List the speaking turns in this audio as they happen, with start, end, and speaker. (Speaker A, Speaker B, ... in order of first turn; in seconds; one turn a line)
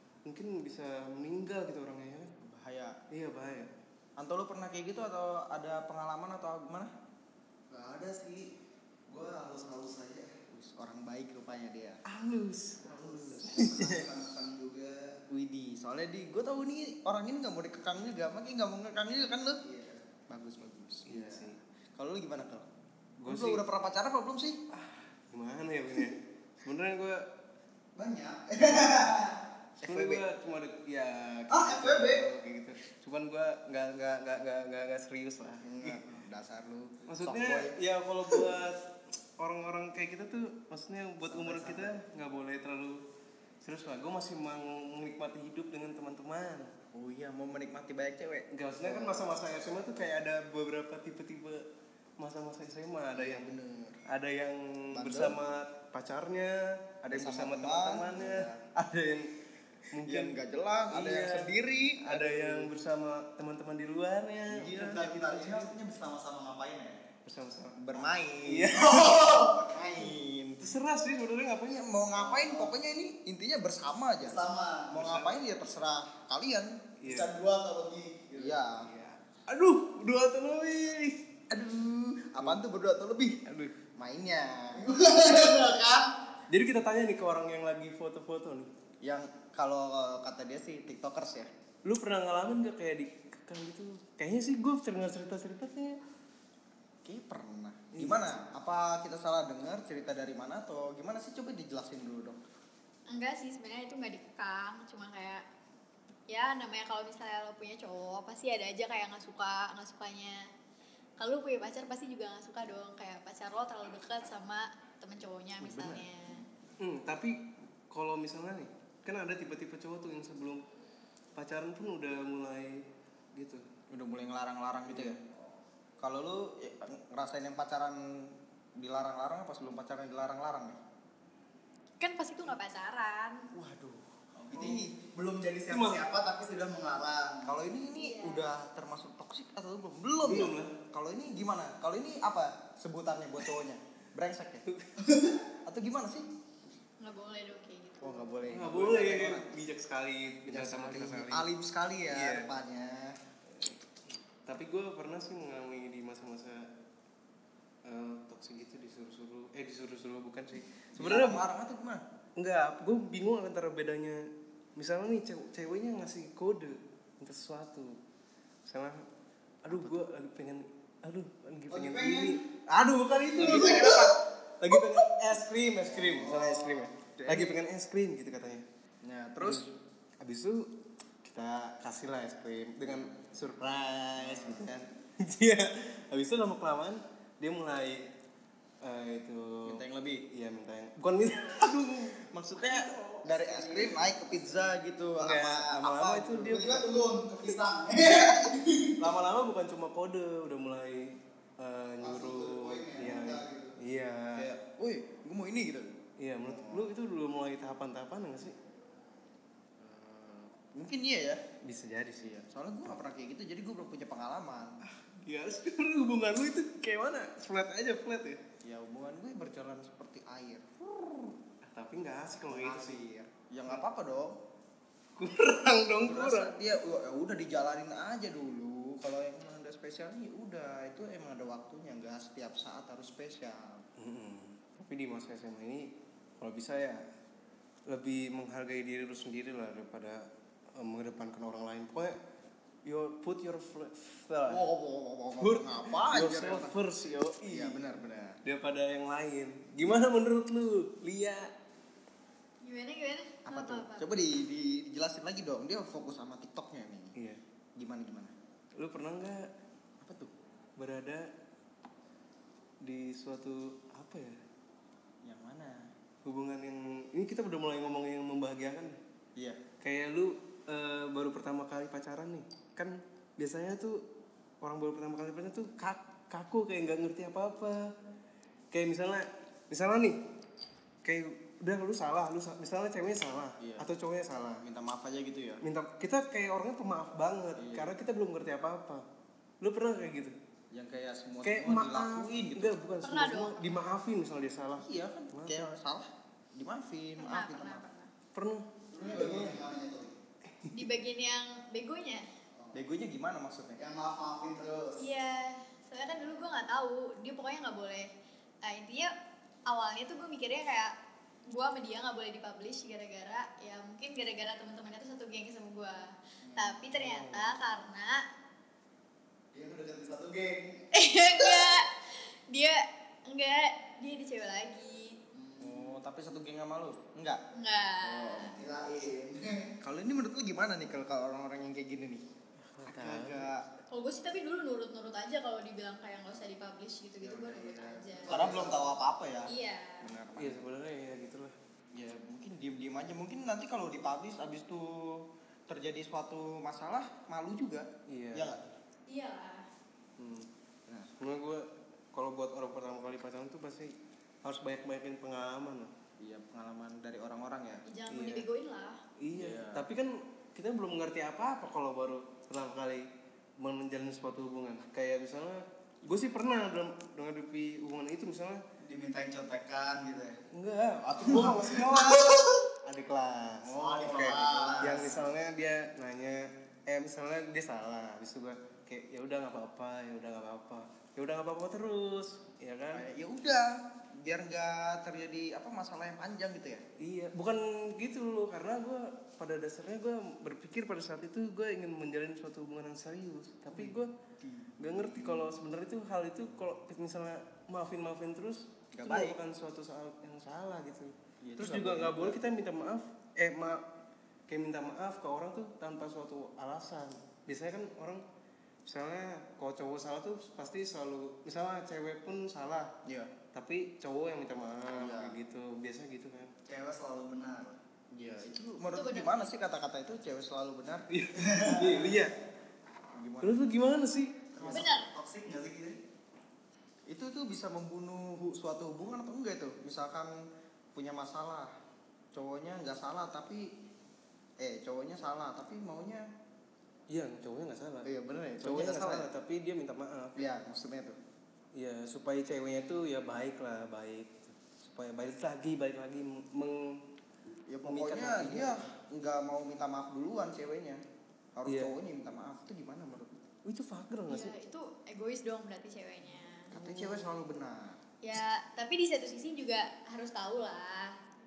Speaker A: 0.2-2.3
Speaker B: 2.4-3.0
Speaker A: 3.1-3.7
Speaker B: 4.2-6.9
Speaker C: 7.7-8.5
Speaker C: 9.1-10.3
Speaker B: 10.5-12.0
Speaker A: 12.1-14.1
Speaker C: 12.8-15.2
Speaker B: 15.3-19.6
Speaker C: 19.7-20.0
Speaker B: 20.3-22.7
Speaker A: 21.1-21.6
Speaker B: 23.2-24.6
Speaker A: 23.2-23.6
Speaker A: 24.8-27.2
Speaker C: 28.0-29.4
Speaker B: 29.8-30.2
Speaker A: 29.8-36.0
Speaker B: 31.5-32.2
Speaker B: 35.6-37.8
Speaker A: 37.1-38.8
Speaker A: 39.4-43.0
Speaker B: 41.2-41.9
Speaker A: 43.6-46.7
Speaker B: 46.9-49.4
Speaker A: 48.5-51.6
Speaker A: 52.2-53.5
Speaker B: 53.1-54.0
Speaker A: 54.1-59.3
Speaker B: 54.9-55.4
Speaker B: 57.1-58.6
Speaker A: 59.9-60.4
Speaker B: 60.0-62.7
Speaker A: 60.9-65.7
Speaker C: 64.5-67.0
Speaker A: 67.2-67.8
Speaker B: 67.8-70.6
Speaker A: 68.4-69.4
Speaker C: 68.9-69.9
Speaker A: 70.6-71.9
Speaker B: 71.7-76.7
Speaker C: 72.2-72.7
Speaker C: 74.2-75.4
Speaker A: 77.0-77.4
Speaker C: 77.0-78.6
Speaker B: 78.3-78.9
Speaker A: 79.0-81.2
Speaker B: 81.5-83.4
Speaker A: 83.5-83.8
Speaker B: 84.0-84.9
Speaker C: 84.8-86.1
Speaker A: 86.5-88.7
Speaker B: 89.0-91.5
Speaker A: 91.8-96.0
Speaker B: 97.0-102.4
Speaker A: 97.9-98.3
Speaker D: 103.1-105.4
Speaker D: 106.3-110.4
Speaker D: 111.2-116.4
Speaker A: 115.6-116.0
Speaker A: 116.8-117.4
Speaker A: 117.9-120.6
Speaker A: 121.4-123.6
Speaker B: 123.9-125.2
Speaker A: 124.9-125.2
Speaker B: 126.0-130.8
Speaker D: 132.0-133.5
Speaker B: 133.5-134.9
Speaker C: 134.4-137.6
Speaker A: 135.7-136.1
Speaker B: 137.4-144.7
Speaker D: 138.0-138.4
Speaker A: 140.2-140.8
Speaker C: 145.1-145.4
Speaker B: 145.7-146.3
Speaker D: 147.0-148.2
Speaker B: 148.0-149.6
Speaker A: 148.5-151.5
Speaker B: 150.5-153.2
Speaker A: 152.1-152.5
Speaker A: 154.5-156.7
Speaker A: 157.9-161.4
Speaker B: 161.0-162.0
Speaker A: 162.4-164.2
Speaker A: 164.8-168.0
Speaker A: 168.7-169.0
Speaker A: 169.6-178.7
Speaker B: 169.7-169.9
Speaker C: 171.7-172.4
Speaker C: 173.4-174.1
Speaker B: 175.8-176.4
Speaker B: 177.2-177.6
Speaker B: 179.0-179.7
Speaker A: 179.4-179.7
Speaker A: 180.2-180.7
Speaker A: 181.2-188.1
Speaker B: 184.2-184.8
Speaker A: 188.8-193.9
Speaker B: 189.7-190.2
Speaker B: 192.3-196.5
Speaker A: 195.2-197.0
Speaker C: 196.4-199.0
Speaker A: 199.0-204.6
Speaker C: 202.0-203.7
Speaker B: 204.3-206.9
Speaker A: 206.2-208.5
Speaker B: 209.8-211.4
Speaker A: 211.7-212.4
Speaker B: 212.2-214.7
Speaker A: 214.8-218.4
Speaker B: 218.6-221.3
Speaker A: 221.7-223.0
Speaker B: 222.5-224.3
Speaker A: 225.2-226.6
Speaker B: 226.0-233.8
Speaker A: 234.0-237.0
Speaker A: 237.9-240.2
Speaker A: 240.8-242.2
Speaker A: 242.8-244.6
Speaker B: 244.5-246.8
Speaker A: 245.4-247.9
Speaker B: 247.4-248.4
Speaker A: 248.4-251.5
Speaker D: 252.6-254.1
Speaker B: 253.5-257.1
Speaker B: 257.8-258.3
Speaker A: 258.8-259.4
Speaker B: 260.0-260.3
Speaker A: 260.8-261.2
Speaker A: 262.8-264.4
Speaker B: 265.2-265.9
Speaker A: 266.2-269.0
Speaker A: 269.8-274.0
Speaker A: 274.6-277.9
Speaker A: 278.7-280.2
Speaker A: 281.1-284.6
Speaker B: 283.6-283.9
Speaker B: 284.6-285.6
Speaker A: 285.6-289.0
Speaker B: 287.6-287.9
Speaker A: 289.6-290.4
Speaker B: 290.7-292.8
Speaker A: 291.4-295.7
Speaker D: 293.0-293.6
Speaker B: 294.8-297.8
Speaker D: 297.2-298.1
Speaker A: 298.3-298.7
Speaker C: 298.9-300.1
Speaker B: 299.1-299.6
Speaker D: 300.7-302.2
Speaker B: 302.7-303.8
Speaker C: 303.8-305.0
Speaker D: 305.0-308.1
Speaker D: 308.6-309.1
Speaker D: 309.7-310.9
Speaker D: 311.5-318.2
Speaker B: 316.6-317.6
Speaker C: 319.5-320.9
Speaker D: 320.9-325.2
Speaker C: 325.3-325.8
Speaker B: 325.6-327.4
Speaker D: 327.6-328.6
Speaker B: 328.0-328.7
Speaker C: 328.6-329.7
Speaker B: 329.8-332.2
Speaker A: 332.7-333.5
Speaker B: 332.9-333.6
Speaker D: 333.9-338.4
Speaker B: 337.2-340.7
Speaker C: 338.2-338.9
Speaker D: 339.5-340.0
Speaker A: 340.4-341.6
Speaker B: 341.9-348.7
Speaker A: 348.1-348.6
Speaker D: 349.1-349.7
Speaker A: 350.2-350.5
Speaker A: 351.2-355.9
Speaker B: 356.2-357.8
Speaker D: 357.9-359.0
Speaker A: 358.1-358.5
Speaker A: 359.2-363.1
Speaker B: 359.3-359.9
Speaker A: 363.6-368.6
Speaker C: 368.8-370.4
Speaker A: 370.5-383.1
Speaker C: 371.4-372.5
Speaker C: 373.7-375.2
Speaker B: 374.0-375.0
Speaker B: 382.9-386.8
Speaker A: 387.0-394.1
Speaker B: 393.7-395.5
Speaker A: 394.8-403.8
Speaker B: 398.9-399.4
Speaker B: 401.4-402.4
Speaker A: 404.5-408.2
Speaker A: 408.9-412.9
Speaker B: 413.1-413.3
Speaker A: 413.5-416.5
Speaker B: 414.9-415.4
Speaker C: 416.7-417.8
Speaker B: 418.1-421.1
Speaker D: 418.9-419.5
Speaker A: 421.1-422.3
Speaker C: 421.6-422.2
Speaker B: 423.2-423.7
Speaker A: 423.4-424.4
Speaker C: 424.6-426.0
Speaker B: 424.6-424.9
Speaker D: 424.7-425.1
Speaker B: 427.1-430.3
Speaker B: 430.9-431.7
Speaker B: 432.3-433.7
Speaker B: 434.6-436.2
Speaker A: 437.1-438.1
Speaker B: 438.0-439.3
Speaker A: 438.6-440.5
Speaker B: 440.4-441.2
Speaker A: 441.8-447.0
Speaker B: 447.7-451.0
Speaker A: 447.8-448.9
Speaker B: 451.6-453.4
Speaker A: 451.7-452.0
Speaker A: 453.6-454.6
Speaker D: 454.3-456.7
Speaker B: 456.7-458.0
Speaker A: 456.7-457.4
Speaker D: 458.2-461.1